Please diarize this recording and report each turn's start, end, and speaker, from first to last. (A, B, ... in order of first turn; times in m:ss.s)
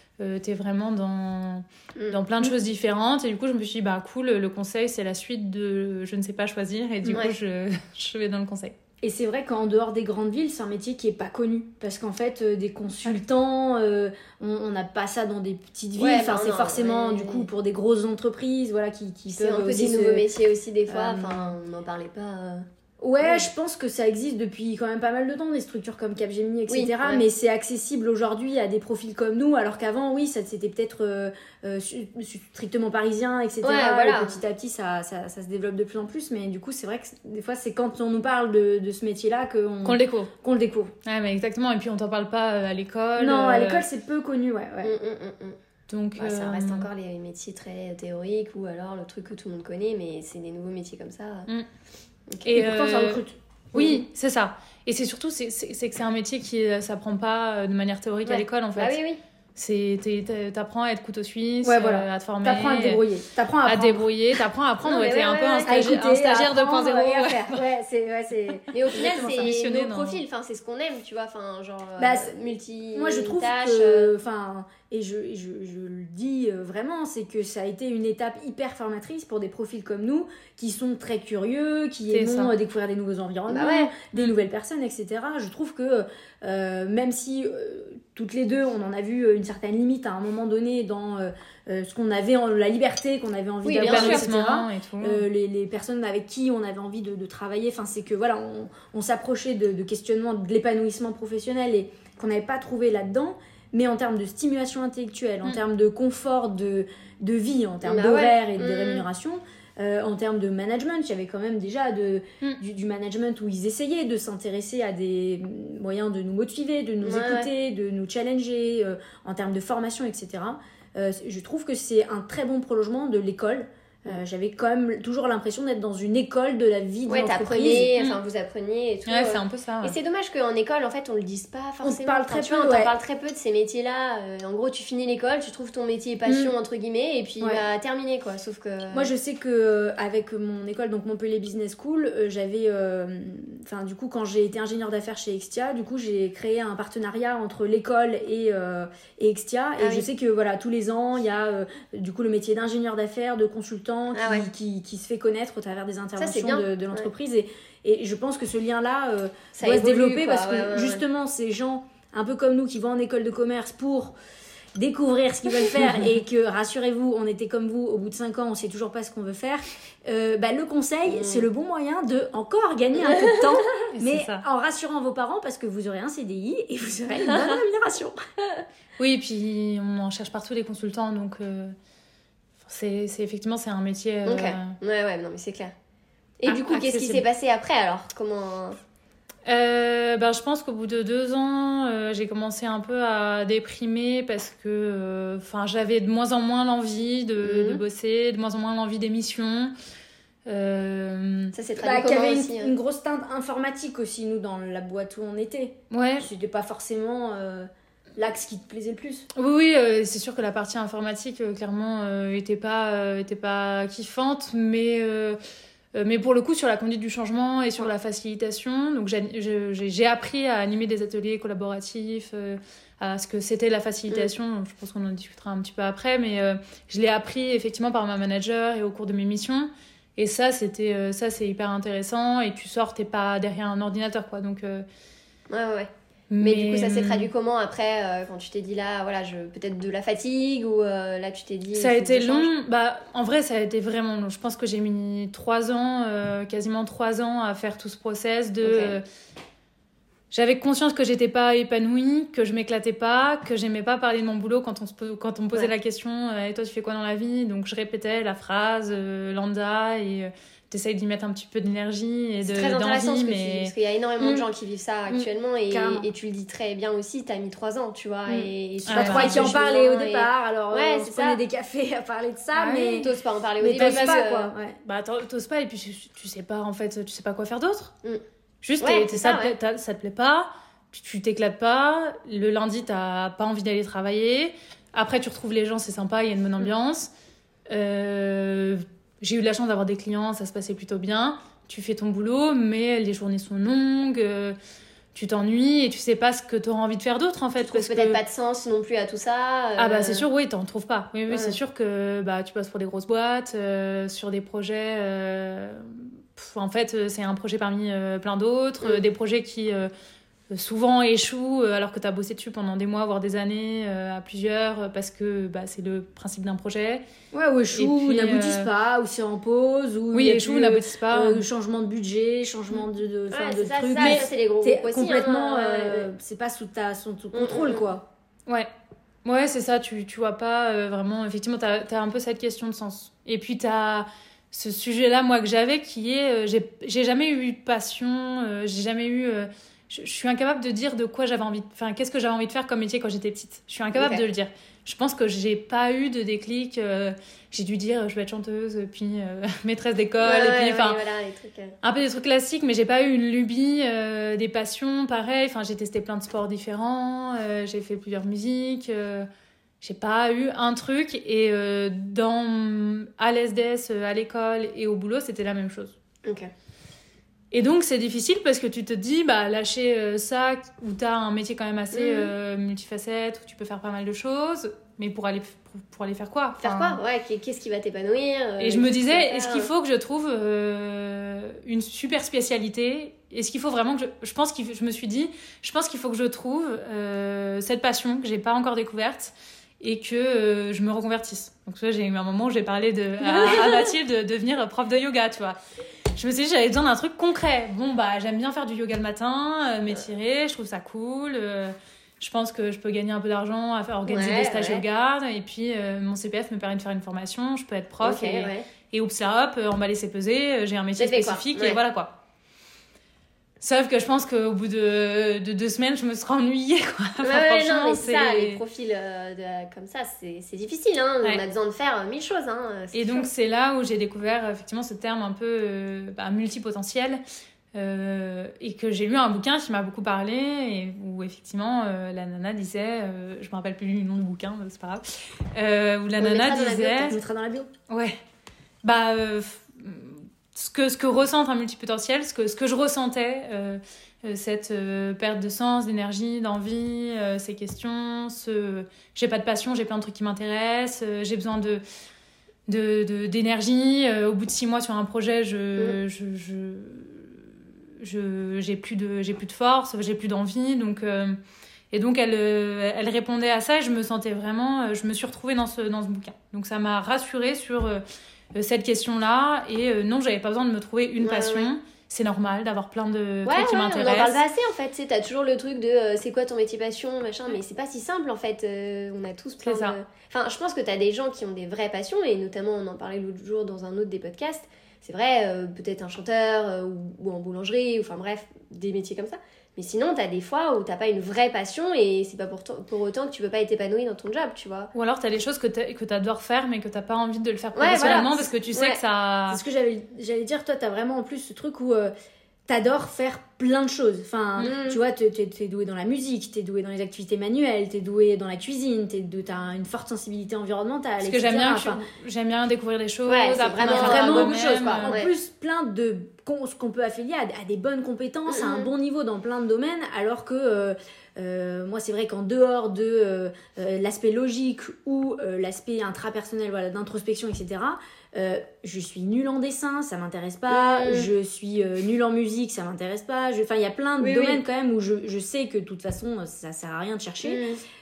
0:00.2-0:08.8 A
0:01.9-0:02.2 B
0:09.0-0:20.3 C
0:16.0-0:17.5 B
0:19.4-0:22.7 B
0:20.9-0:21.5 C
0:23.0-0:40.9 C
0:23.2-0:23.5 B
0:26.7-0:27.3 B
0:33.6-0:34.4 B
0:39.8-0:40.3 A
0:41.0-0:43.8 A
0:43.2-0:44.9 C
0:44.8-0:45.6 B
0:45.9-0:46.9 A
0:46.2-0:51.5 B
0:52.3-0:52.5 B
0:52.4-0:59.0 A
0:52.6-0:53.4 C
0:53.7-0:54.0 B
0:58.3-0:59.2 B
0:59.6-1:03.0 A
1:01.6-1:04.1 C
1:03.7-1:07.6 A
1:04.8-1:06.0 B
1:05.7-1:09.5 C
1:08.7-1:14.1 B
1:08.9-1:10.2 A
1:12.0-2:08.0 C
1:22.1-1:22.5 A
1:23.5-1:23.9 B
1:33.6-1:34.3 B
1:33.8-1:35.3 A
1:47.8-1:49.1 B
1:57.0-1:57.5 B
2:07.1-2:19.1 B
2:09.1-2:10.0 A
2:11.8-2:12.9 C
2:16.3-2:16.5 C
2:18.9-2:44.2 C
2:29.8-2:30.1 B
2:34.1-2:34.4 B
2:36.2-2:37.1 B
2:39.5-2:41.0 B
2:44.8-2:58.2 C
2:51.1-2:51.5 B
2:53.0-2:53.5 B
2:53.9-2:54.4 A
2:57.3-2:57.5 B
2:59.0-3:01.8 A
3:02.6-3:04.8 A
3:04.3-3:05.7 B
3:06.4-3:08.8 B
3:06.4-3:07.2 A
3:09.5-3:19.7 A
3:17.4-3:17.8 B
3:20.4-3:21.5 A
3:21.5-3:22.7 B
3:21.8-3:29.3 C
3:25.9-3:26.3 A
3:29.3-3:35.4 A
3:35.9-3:54.8 A
3:55.5-4:02.5 B
3:56.3-3:57.3 A
4:01.8-4:09.0 A
4:08.6-4:09.0 B
4:10.3-4:23.7 A
4:22.4-4:31.4 B
4:24.2-4:24.4 C
4:25.1-4:26.1 C
4:28.3-4:34.8 C
4:28.9-4:29.5 A
4:32.5-4:33.0 A
4:32.9-4:34.5 B
4:33.8-4:34.2 A
4:34.8-4:37.9 A
4:38.6-4:47.1 A
4:38.8-4:39.5 B
4:47.7-4:54.6 A
4:55.1-4:58.2 A
4:57.6-5:00.3 B
4:59.8-5:09.9 A
5:01.3-5:01.6 B
5:10.5-5:17.0 A
5:17.3-5:28.0 C
5:17.7-5:18.7 A
5:20.1-5:21.4 A
5:23.3-5:26.1 B
5:24.0-5:24.2 A
5:27.3-5:28.0 B
5:29.2-5:51.0 A
5:43.9-5:44.2 B
5:50.2-5:51.8 B
5:51.8-5:59.3 A
5:59.8-6:06.0 A
6:06.2-6:06.5 B
6:07.5-6:17.0 A
6:11.9-6:12.3 B
6:16.6-6:19.7 B
6:18.6-6:35.6 A
6:36.2-6:52.1 A
6:44.1-6:44.8 B
6:48.0-6:48.6 B
6:51.0-6:51.8 B
6:53.6-6:58.6 A
6:57.2-7:03.3 B
7:02.9-7:07.2 A
7:07.7-7:17.2 A
7:16.2-7:17.2 B
7:17.0-7:17.7 C
7:17.9-7:18.2 A
7:18.8-7:31.8 A
7:32.7-7:37.4 A
7:38.0-7:41.4 A
7:41.9-7:48.0 A
7:48.5-7:54.4 A
7:51.2-7:51.7 B
7:53.4-8:14.9 B
7:59.6-8:00.0 A
8:14.9-8:19.6 A
8:17.8-8:19.0 B
8:19.5-8:22.1 C
8:22.7-8:32.0 C
8:24.6-8:25.0 B
8:31.2-8:35.2 A
8:33.3-8:35.3 B
8:33.8-8:57.6 C
8:38.5-8:38.9 B
8:50.7-8:51.3 B
8:54.2-8:54.6 B
8:57.4-8:57.8 B